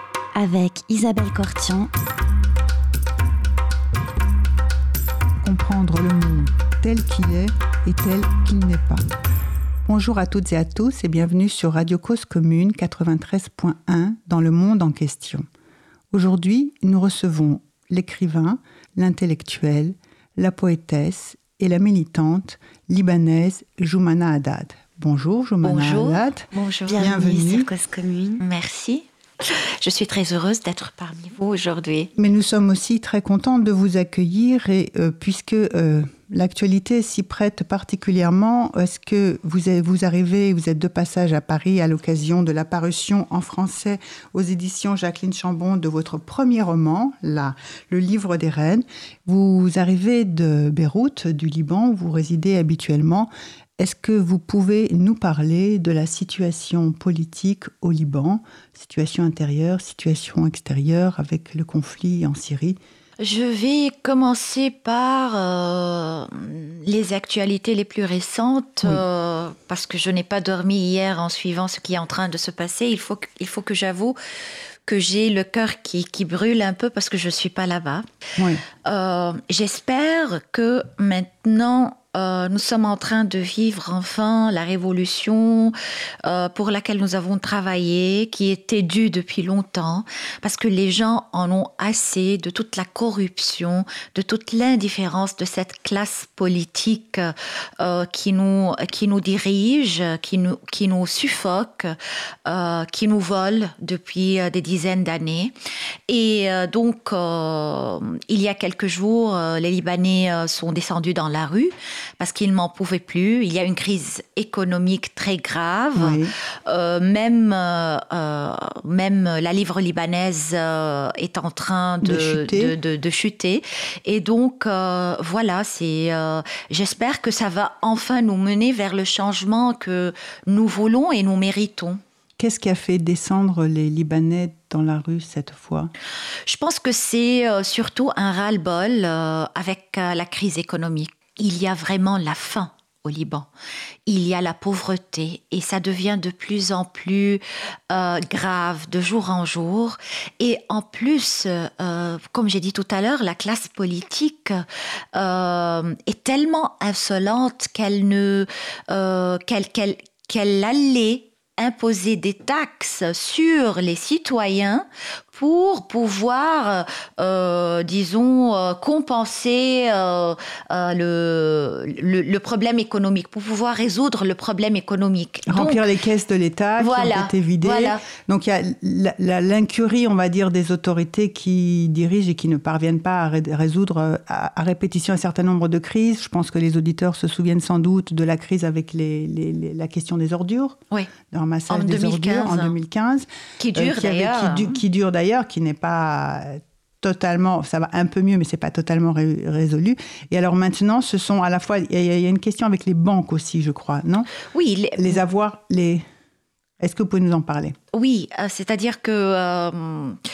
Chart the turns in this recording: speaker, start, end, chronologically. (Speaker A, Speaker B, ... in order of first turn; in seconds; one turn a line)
Speaker A: 0.3-1.9
Speaker B: 5.4-9.0
Speaker B: 9.8-15.4
Speaker B: 16.1-27.7
Speaker C: 25.6-27.0
Speaker A: 26.9-28.4
Speaker C: 28.4-32.1
Speaker B: 32.2-62.8
Speaker C: 63.2-74.2
Speaker C: 74.8-78.1
Speaker B: 78.4-78.6
Speaker C: 78.7-105.5
Speaker C: 106.1-132.0
Speaker B: 115.9-116.3
Speaker B: 122.0-122.7
Speaker B: 132.4-135.9
Speaker C: 136.5-143.5
Speaker C: 144.1-154.6
Speaker C: 155.1-175.8
Speaker B: 175.5-190.8
Speaker C: 176.8-178.0
Speaker B: 191.3-204.3
Speaker C: 191.7-192.7
Speaker C: 193.6-194.8
Speaker C: 204.5-205.2
Speaker B: 205.0-206.0
Speaker B: 206.8-207.7
Speaker C: 207.9-210.2